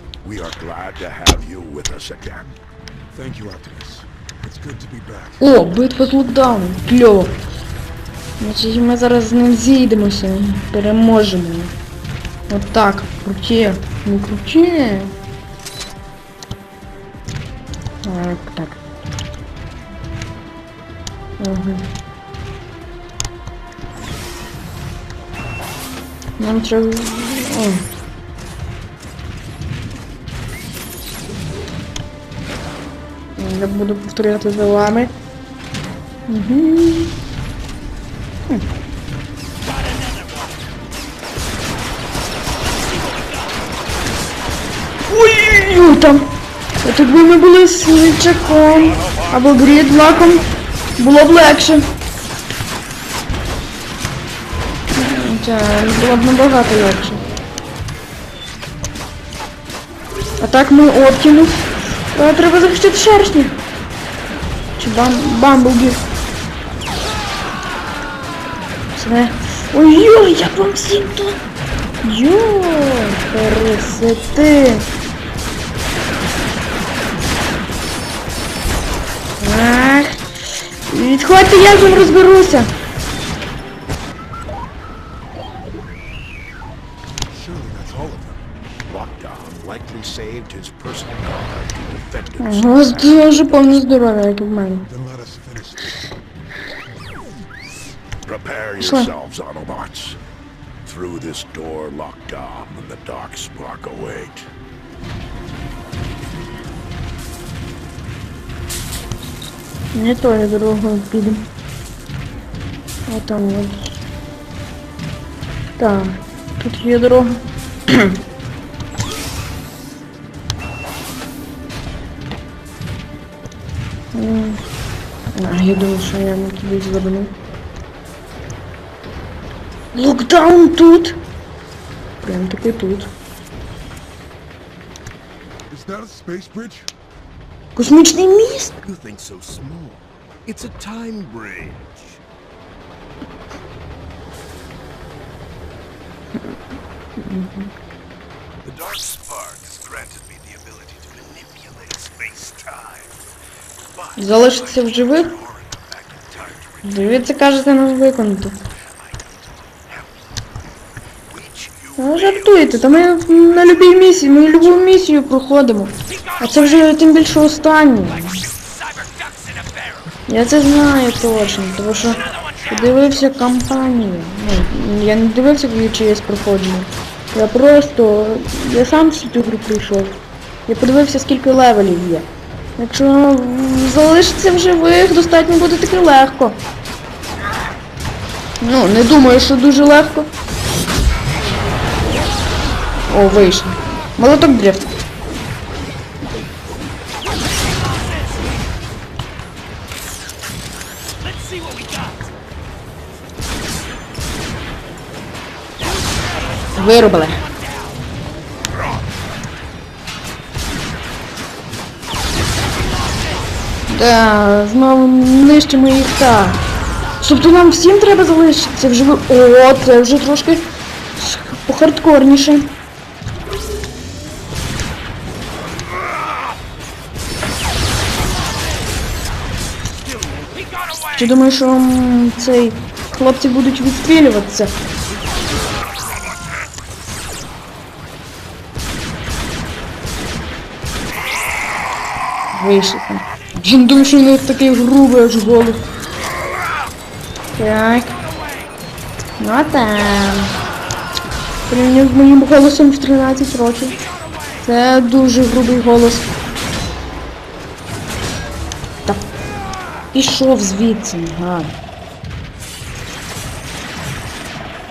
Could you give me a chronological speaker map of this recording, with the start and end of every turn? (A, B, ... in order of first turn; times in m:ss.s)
0:00.2-0:02.6 A
0:03.1-0:05.4 B
0:05.4-0:07.4 C
0:08.4-0:11.7 C
0:12.5-0:15.1 C
0:18.0-0:18.8 C
0:21.4-0:21.8 C
0:26.4-0:27.8 C
0:33.4-0:35.1 C
0:36.3-0:37.2 C
0:39.8-0:40.5 D
0:43.0-0:43.3 D
0:45.1-0:46.3 C
0:46.8-0:50.5 C
0:48.6-0:50.4 A
0:51.0-0:51.9 C
0:55.0-0:57.2 C
1:00.4-1:03.6 C
1:04.8-1:06.0 C
1:09.0-1:11.4 C
1:12.0-1:14.9 C
1:19.4-1:20.2 C
1:20.9-1:22.7 C
1:27.3-1:28.4 B
1:28.9-1:33.8 A
1:32.4-1:34.9 C
1:34.8-1:36.0 B
1:38.2-1:40.2 A
1:38.8-1:39.1 C
1:40.8-1:44.5 A
1:49.9-1:51.4 C
1:53.1-1:53.9 C
1:55.8-1:58.2 C
2:04.1-2:04.6 C
2:05.4-2:07.3 C
2:09.9-2:11.2 C
2:12.2-2:13.1 C
2:15.7-2:16.9 B
2:17.8-2:18.8 C
2:18.8-2:22.2 D
2:27.2-2:27.7 C
2:28.6-2:33.2 D
2:33.9-2:36.9 D
2:34.2-2:35.3 C
2:36.8-2:38.6 C
2:38.9-2:40.4 D
2:41.3-2:43.3 D
2:42.0-2:48.4 C
2:48.6-2:50.1 D
2:50.3-3:02.3 C
3:02.8-3:06.6 C
3:08.6-3:10.3 C
3:13.1-3:14.9 C
3:17.8-3:18.4 D
3:21.2-3:22.3 D
3:26.8-3:27.4 C
3:33.9-3:36.6 C
3:37.2-3:40.7 C
3:41.2-3:42.7 C
3:49.9-3:51.1 D
3:51.1-3:54.8 C
3:55.2-3:56.3 D
4:02.5-4:05.8 C
4:07.6-4:08.2 C
4:09.4-4:10.6 C
4:11.7-4:14.0 C
4:14.6-4:16.3 C
4:20.1-4:21.7 C